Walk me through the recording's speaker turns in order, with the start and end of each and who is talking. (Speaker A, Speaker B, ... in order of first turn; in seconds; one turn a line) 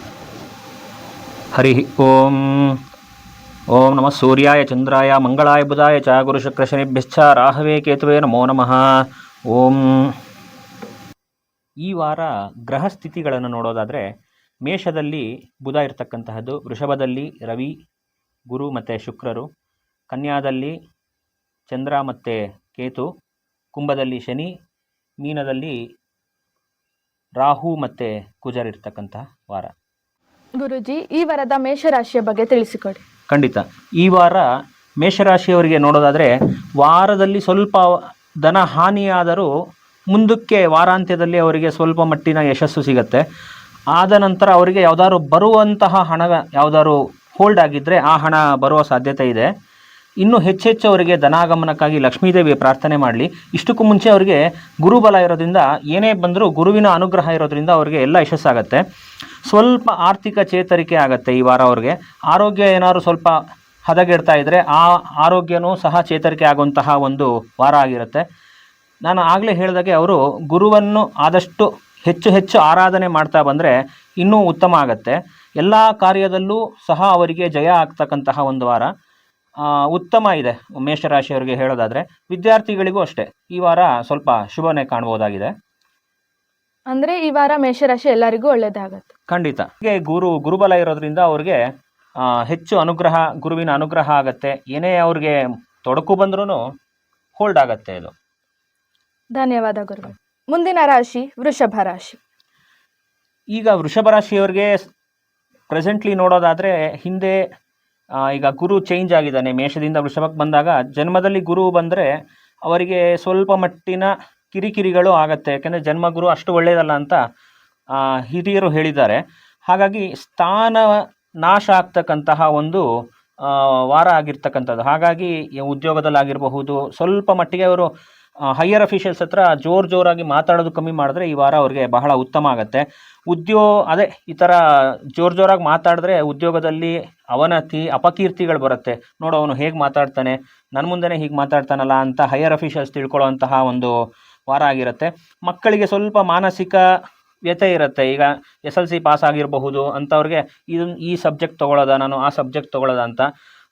Speaker A: 1.5-2.8
Speaker A: 3.7-8.8
Speaker A: 9.5-10.2
Speaker A: 11.8-14.1
Speaker A: 14.6-17.8
Speaker A: 18.5-19.5
Speaker A: 20.1-20.8
Speaker A: 21.7-23.1
Speaker A: 23.7-24.5
Speaker A: 25.2-25.8
Speaker A: 27.4-29.7
Speaker B: 30.6-33.0
Speaker A: 33.3-34.5
Speaker A: 35.0-39.5
Speaker A: 40.1-43.2
Speaker A: 43.9-49.5
Speaker A: 50.2-58.8
Speaker A: 59.5-68.2
Speaker A: 69.0-78.9
Speaker A: 79.6-85.5
Speaker B: 86.9-89.1
Speaker A: 89.3-91.6
Speaker A: 92.2-96.6
Speaker A: 97.4-98.1
Speaker B: 99.3-102.2
Speaker A: 103.5-104.8
Speaker A: 105.7-107.4
Speaker A: 108.2-112.1
Speaker A: 112.7-117.2
Speaker A: 117.9-122.8
Speaker A: 123.4-127.9
Speaker A: 128.5-143.9
Speaker A: 144.5-146.8
Speaker A: 147.5-153.3